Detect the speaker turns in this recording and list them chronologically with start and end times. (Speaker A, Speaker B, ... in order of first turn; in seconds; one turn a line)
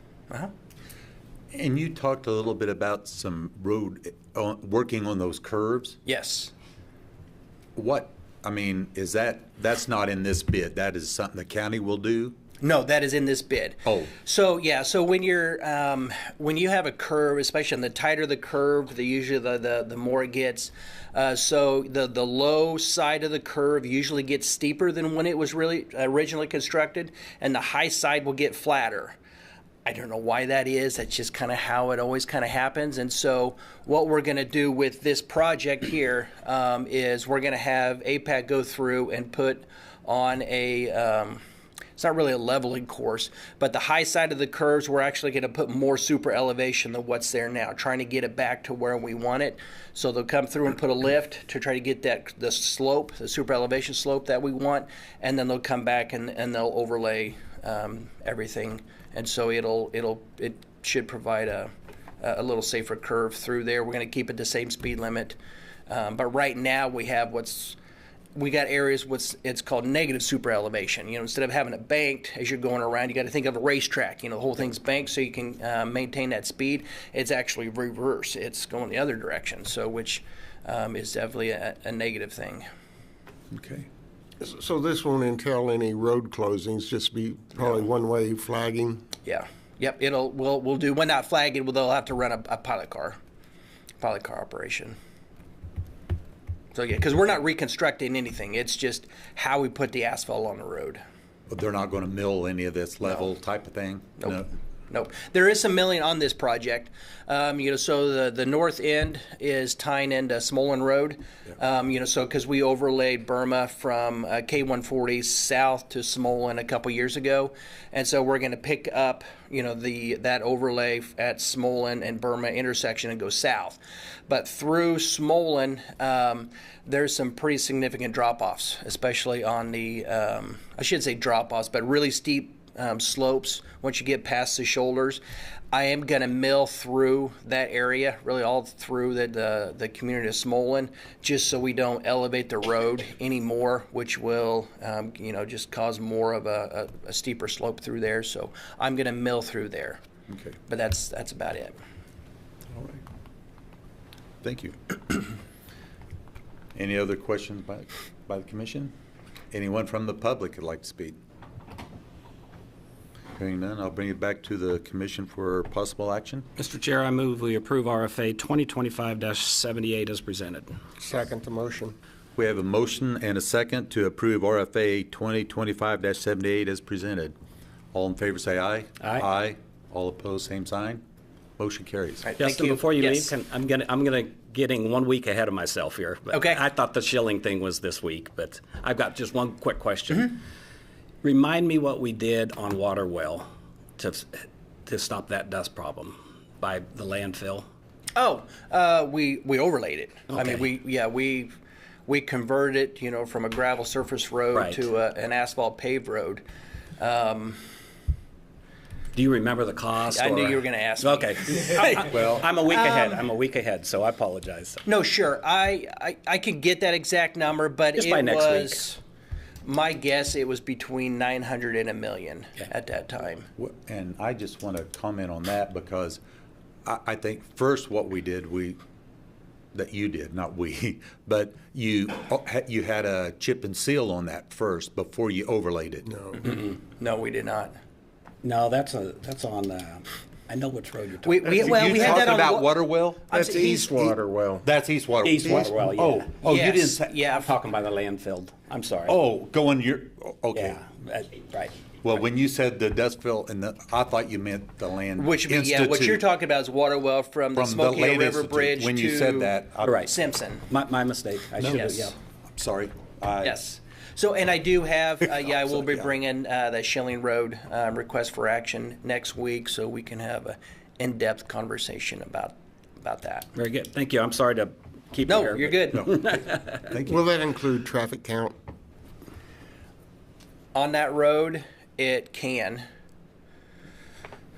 Speaker A: 1.5-6.0
Speaker B: 6.0-6.5
Speaker A: 7.8-12.4
Speaker B: 12.6-29.1
Speaker A: 13.8-14.1
Speaker B: 29.8-41.4
Speaker B: 42.0-67.8
Speaker B: 68.3-82.6
Speaker A: 83.5-83.8
Speaker C: 84.4-89.0
Speaker B: 89.2-93.2
Speaker B: 94.0-95.0
Speaker B: 96.7-101.0
Speaker A: 101.5-104.5
Speaker B: 104.9-150.0
Speaker A: 150.3-150.6
Speaker B: 150.7-151.8
Speaker A: 152.7-153.0
Speaker A: 154.4-155.3
Speaker A: 156.7-158.9
Speaker A: 159.5-161.2
Speaker A: 163.3-166.4
Speaker D: 166.6-170.7
Speaker C: 171.0-171.9
Speaker A: 172.3-177.3
Speaker A: 177.9-181.0
Speaker A: 181.6-182.2
Speaker B: 182.2-183.3
Speaker D: 182.4-190.4
Speaker B: 186.3-186.6
Speaker D: 191.2-193.5
Speaker D: 194.0-197.7
Speaker B: 198.1-206.4
Speaker D: 200.3-200.6
Speaker D: 204.5-204.9
Speaker B: 207.0-207.6
Speaker D: 209.1-214.8
Speaker B: 210.1-212.0
Speaker A: 212.1-212.5
Speaker B: 212.7-213.2
Speaker B: 214.8-219.0
Speaker D: 217.9-218.8
Speaker B: 219.6-223.5
Speaker A: 223.6-226.2
Speaker A: 226.8-228.8
Speaker A: 229.7-236.1
Speaker C: 236.1-236.4
Speaker B: 236.4-237.8
Speaker D: 238.4-241.6
Speaker B: 241.2-243.9
Speaker A: 241.4-243.3
Speaker C: 243.3-244.6
Speaker A: 243.9-247.1
Speaker D: 245.2-246.3
Speaker B: 246.4-247.5
Speaker D: 247.3-249.2
Speaker A: 249.1-250.8
Speaker D: 250.5-251.7
Speaker A: 252.0-256.2
Speaker B: 255.2-260.6
Speaker A: 257.6-260.1
Speaker D: 259.8-260.1
Speaker D: 260.7-262.1
Speaker B: 261.6-262.1
Speaker A: 262.5-263.6
Speaker B: 263.4-273.5
Speaker D: 273.5-276.8
Speaker B: 275.2-276.1
Speaker A: 275.9-277.2
Speaker C: 277.0-278.5
Speaker B: 280.7-282.8